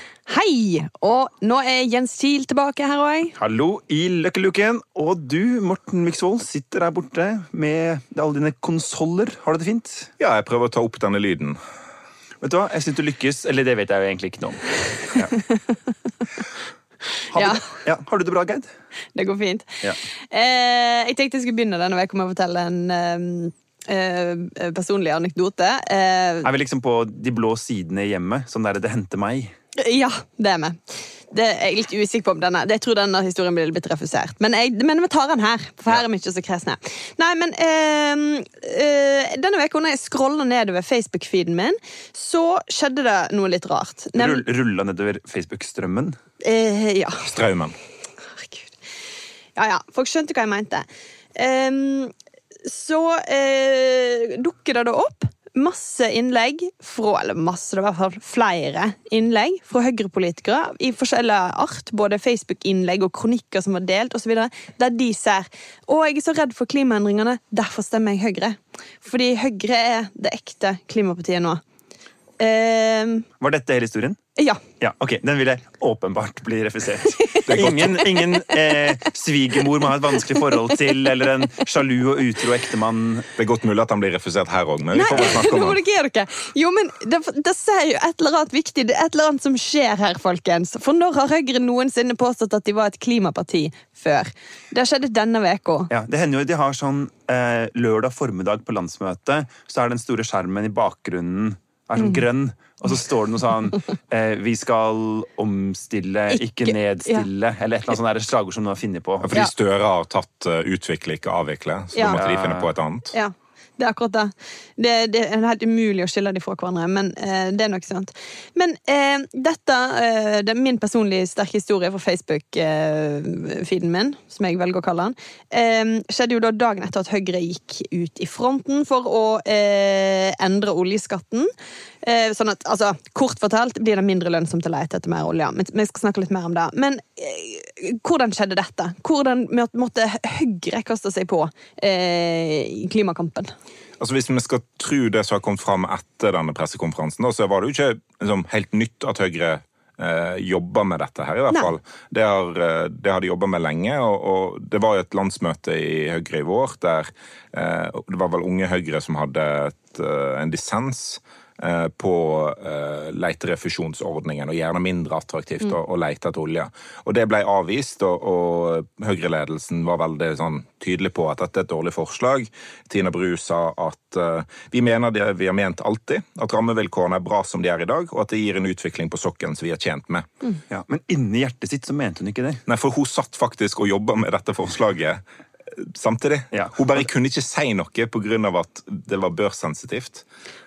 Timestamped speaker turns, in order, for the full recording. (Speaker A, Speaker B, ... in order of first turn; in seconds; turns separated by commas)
Speaker A: 0.3-3.3, Speaker B: 3.4-10.1, Speaker C: 10.2-11.6, Speaker B: 12.4-15.4, Speaker A: 15.3-15.6, Speaker B: 17.3-18.7, Speaker A: 17.3-17.7, Speaker A: 19.1-19.8, Speaker A: 20.3-26.5, Speaker B: 26.4-29.5, Speaker A: 29.8-44.4, Speaker B: 44.1-46.2, Speaker A: 46.4-47.3, Speaker C: 47.2-47.8, Speaker A: 48.2-48.8, Speaker A: 49.5-52.1, Speaker A: 52.6-71.6, Speaker A: 72.4-73.3, Speaker B: 73.4-74.2, Speaker B: 74.8-83.3, Speaker A: 77.2-78.6, Speaker C: 77.5-78.0, Speaker A: 80.2-80.8, Speaker C: 83.4-85.8, Speaker A: 84.9-95.9, Speaker B: 95.9-109.3, Speaker A: 106.3-107.3, Speaker C: 109.2-113.1, Speaker B: 112.1-112.7, Speaker A: 113.1-131.5, Speaker A: 132.0-143.5, Speaker C: 144.0-180.3, Speaker B: 180.7-182.6, Speaker C: 182.7-190.2, Speaker B: 186.5-187.0